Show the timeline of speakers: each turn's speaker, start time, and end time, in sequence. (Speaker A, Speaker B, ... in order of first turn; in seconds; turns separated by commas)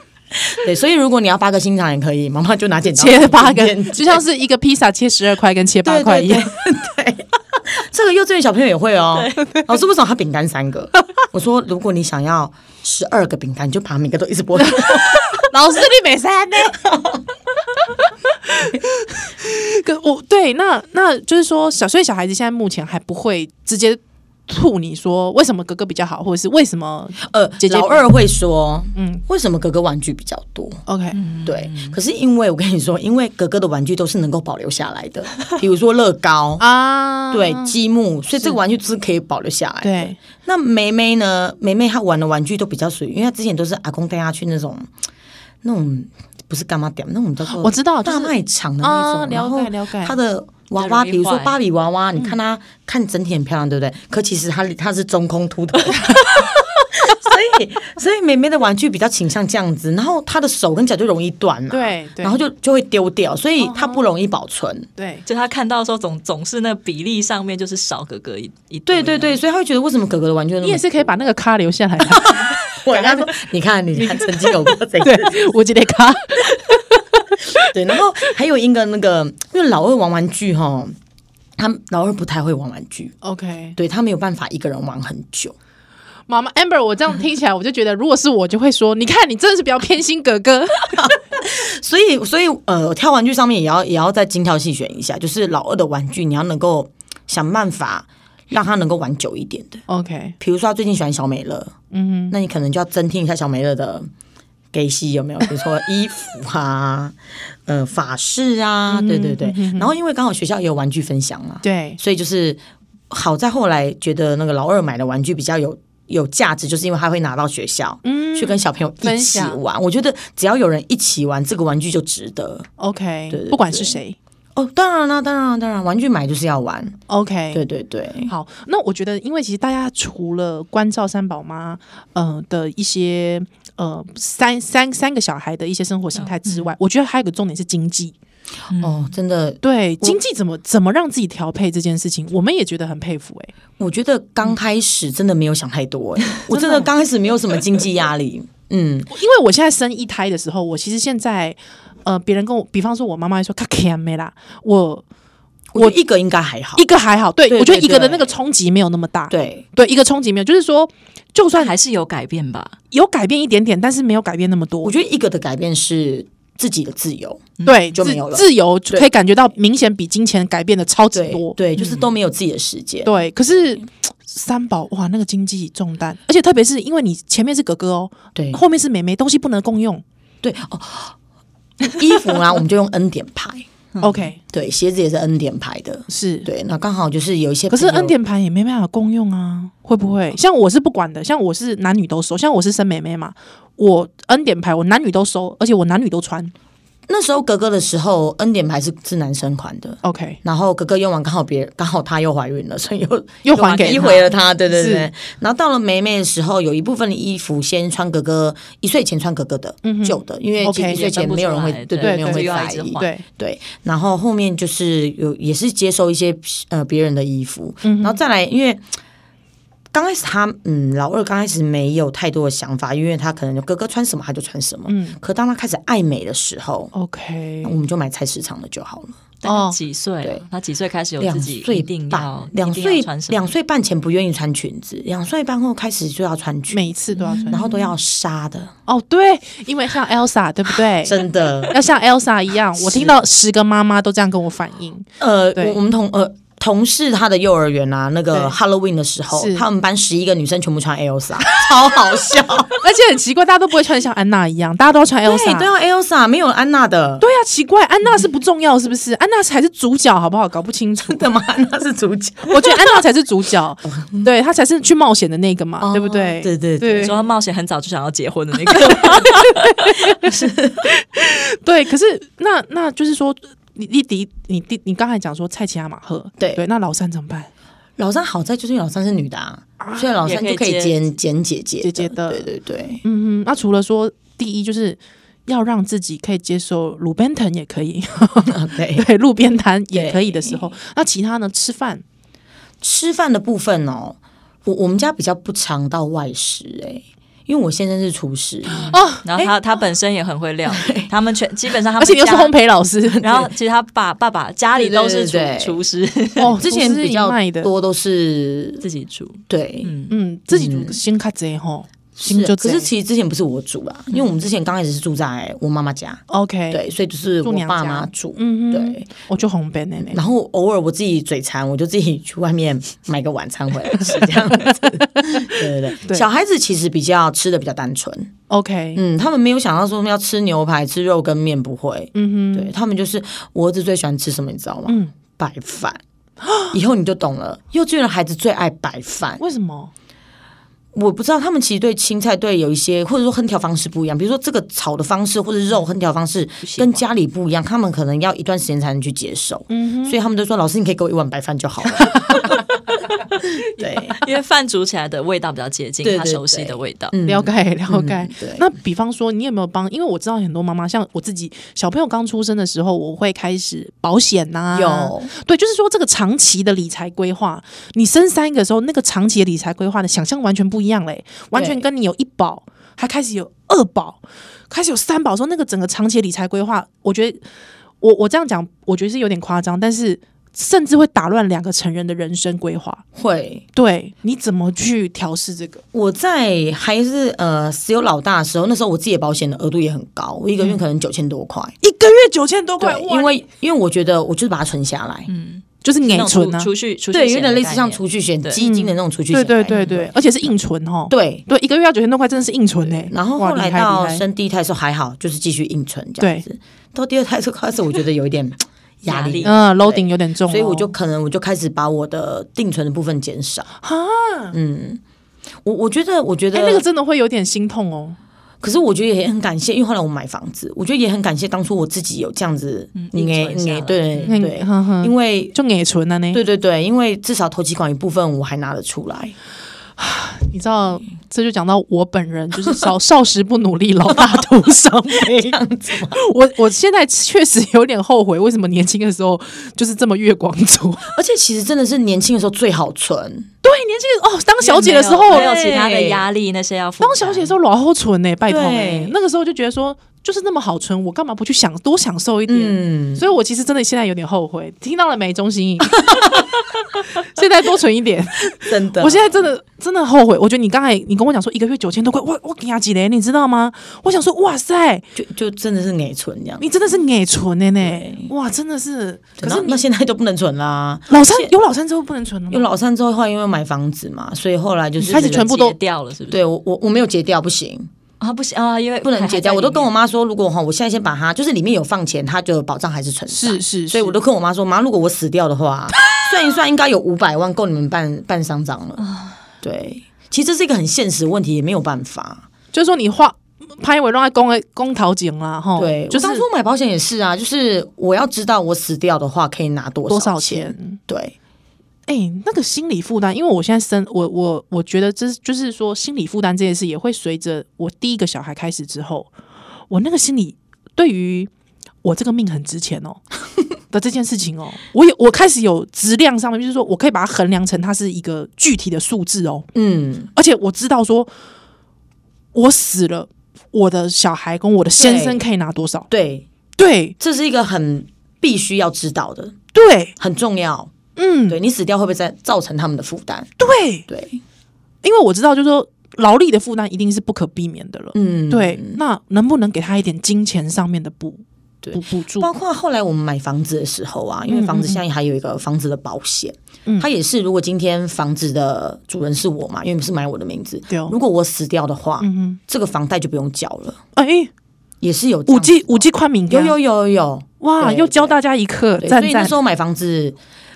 Speaker A: 0.3-4.2, Speaker B: 2.9-6.5, Speaker A: 5.8-15.4, Speaker B: 14.7-16.8, Speaker A: 16.7-17.2, Speaker B: 18.4-28.1, Speaker A: 27.2-30.8, Speaker B: 28.9-29.2, Speaker B: 30.9-31.2, Speaker C: 31.1-32.0, Speaker A: 31.4-36.6, Speaker B: 36.6-37.7, Speaker A: 37.3-44.9, Speaker B: 39.8-40.2, Speaker A: 45.6-64.9, Speaker B: 47.5-50.2, Speaker C: 50.8-51.6, Speaker B: 61.7-62.4, Speaker B: 63.6-64.0, Speaker B: 65.0-65.2, Speaker C: 65.3-69.4, Speaker A: 68.9-71.2, Speaker B: 70.6-73.3, Speaker A: 72.0-75.5, Speaker B: 74.0-77.7, Speaker A: 77.6-81.0, Speaker A: 81.6-83.2, Speaker B: 83.2-83.8, Speaker A: 83.8-85.5, Speaker B: 86.3-91.1, Speaker A: 90.9-99.8, Speaker B: 99.9-100.4, Speaker A: 100.4-101.7, Speaker B: 101.9-102.3, Speaker A: 102.3-104.1, Speaker A: 104.7-122.7, Speaker B: 108.9-109.9, Speaker B: 111.6-112.0, Speaker B: 118.0-119.6, Speaker B: 122.8-124.2, Speaker A: 123.3-124.0, Speaker A: 124.6-127.0, Speaker B: 127.1-127.6, Speaker A: 127.5-128.3, Speaker B: 128.3-138.2, Speaker C: 136.2-136.7, Speaker C: 138.7-139.1, Speaker A: 138.7-140.2, Speaker B: 139.6-143.5, Speaker A: 143.8-149.1, Speaker B: 146.5-146.9, Speaker B: 149.1-155.0, Speaker A: 155.7-156.9, Speaker B: 156.8-161.7, Speaker A: 157.5-158.3, Speaker A: 159.3-159.7, Speaker C: 161.6-162.8, Speaker B: 162.9-164.9, Speaker A: 164.8-169.1, Speaker B: 167.6-171.6, Speaker A: 171.1-173.1, Speaker C: 171.8-172.0, Speaker B: 173.0-180.0, Speaker A: 178.3-178.6, Speaker A: 180.4-181.2, Speaker A: 181.9-183.7, Speaker B: 184.0-184.4, Speaker A: 184.5-188.2, Speaker B: 186.1-186.5, Speaker B: 187.7-196.5, Speaker A: 197.1-218.8, Speaker B: 200.0-200.4, Speaker B: 203.4-205.1, Speaker C: 203.8-204.3, Speaker B: 209.8-211.0, Speaker C: 210.9-213.1, Speaker B: 212.0-213.2, Speaker B: 217.8-218.2, Speaker A: 219.9-226.9, Speaker B: 224.9-225.2, Speaker B: 226.9-227.8, Speaker A: 227.6-229.2, Speaker C: 229.4-233.5, Speaker B: 229.4-229.8, Speaker A: 231.2-236.9, Speaker B: 236.7-237.7, Speaker C: 237.2-237.7, Speaker A: 237.5-238.7, Speaker B: 238.9-245.8, Speaker A: 241.0-241.8, Speaker A: 242.8-243.2, Speaker A: 245.2-252.8, Speaker B: 249.3-249.7, Speaker B: 252.8-255.7, Speaker A: 255.2-257.2, Speaker B: 257.2-261.3, Speaker A: 261.1-262.9, Speaker B: 262.5-267.1, Speaker A: 263.8-264.3, Speaker A: 265.8-267.2, Speaker C: 266.9-269.7, Speaker A: 268.8-269.3, Speaker B: 269.1-270.3, Speaker A: 270.2-270.9, Speaker B: 270.8-277.5, Speaker A: 278.0-283.0, Speaker B: 279.8-280.1, Speaker C: 280.2-281.0, Speaker B: 281.8-282.5, Speaker B: 283.0-292.0, Speaker A: 288.4-289.1, Speaker A: 289.9-290.7, Speaker A: 292.8-299.5, Speaker B: 298.9-299.5, Speaker C: 299.2-302.6, Speaker A: 300.7-301.1, Speaker B: 302.0-303.5, Speaker C: 303.2-306.6, Speaker A: 304.8-305.8, Speaker B: 306.4-307.7, Speaker A: 306.4-308.9, Speaker C: 308.8-310.2, Speaker A: 309.5-309.9, Speaker B: 310.1-312.9, Speaker A: 310.5-311.0, Speaker A: 312.2-319.1, Speaker B: 316.3-316.8, Speaker B: 317.4-320.2, Speaker A: 320.1-328.3, Speaker B: 325.0-326.3, Speaker B: 328.5-329.0, Speaker A: 328.9-336.0, Speaker B: 332.1-332.7, Speaker B: 334.9-335.1, Speaker B: 336.4-336.8, Speaker A: 336.7-339.4, Speaker B: 339.4-339.9, Speaker A: 340.9-352.6, Speaker C: 346.6-347.0, Speaker B: 349.7-350.2, Speaker B: 352.1-352.6, Speaker A: 353.8-354.2, Speaker B: 353.8-354.2, Speaker C: 354.2-357.1, Speaker A: 356.0-358.7, Speaker B: 357.2-377.4, Speaker A: 364.7-365.3, Speaker A: 371.5-371.9, Speaker B: 378.0-383.0, Speaker A: 383.1-383.6, Speaker B: 383.8-385.8, Speaker A: 385.9-391.8, Speaker B: 391.8-393.4, Speaker A: 392.8-395.3, Speaker C: 395.3-398.6, Speaker B: 395.8-396.7, Speaker A: 397.1-400.1, Speaker B: 398.6-404.2, Speaker A: 401.1-401.4, Speaker A: 402.8-413.7, Speaker B: 406.2-406.5, Speaker C: 409.1-409.6, Speaker B: 409.4-410.9, Speaker B: 413.8-414.6, Speaker A: 414.5-415.0, Speaker A: 415.6-416.9, Speaker B: 416.5-418.2, Speaker A: 418.6-425.6, Speaker C: 422.9-424.4, Speaker B: 424.3-426.4, Speaker A: 426.3-429.4, Speaker B: 430.0-435.4, Speaker A: 434.1-434.4, Speaker A: 435.1-436.2, Speaker B: 436.1-441.1, Speaker A: 441.1-443.5, Speaker B: 443.6-445.5, Speaker C: 444.6-447.6, Speaker A: 445.3-446.2, Speaker B: 447.0-456.3, Speaker A: 448.5-449.1, Speaker A: 452.5-453.3, Speaker A: 456.1-456.4, Speaker B: 457.1-465.1, Speaker A: 458.6-459.5, Speaker A: 465.2-466.7, Speaker B: 466.6-469.8, Speaker A: 467.8-468.3, Speaker A: 469.4-471.5, Speaker B: 471.1-472.7, Speaker A: 472.5-475.6, Speaker C: 475.0-476.4, Speaker B: 475.1-475.8, Speaker A: 476.3-477.9, Speaker C: 478.2-479.9, Speaker A: 479.0-489.1, Speaker B: 483.3-484.2, Speaker C: 489.0-489.4, Speaker A: 489.6-492.5, Speaker B: 492.7-496.5, Speaker A: 495.8-501.4, Speaker B: 500.1-501.0, Speaker B: 502.1-509.3, Speaker B: 509.9-511.5, Speaker B: 512.0-513.2, Speaker B: 513.9-519.7, Speaker A: 519.7-520.3, Speaker B: 520.3-521.3, Speaker B: 522.5-526.1, Speaker A: 525.0-525.4, Speaker A: 526.1-526.5, Speaker B: 526.8-527.2, Speaker A: 527.2-529.6, Speaker B: 529.7-530.1, Speaker A: 530.2-530.9, Speaker B: 531.2-531.6, Speaker A: 531.5-533.5, Speaker B: 533.6-534.1, Speaker A: 534.1-534.4, Speaker B: 535.0-542.5, Speaker A: 538.1-539.0, Speaker A: 541.8-554.0, Speaker B: 544.5-545.0, Speaker B: 550.9-551.2, Speaker B: 552.2-552.6, Speaker B: 554.2-554.5, Speaker A: 555.0-558.4, Speaker B: 555.5-556.8, Speaker B: 557.6-559.6, Speaker A: 559.0-560.4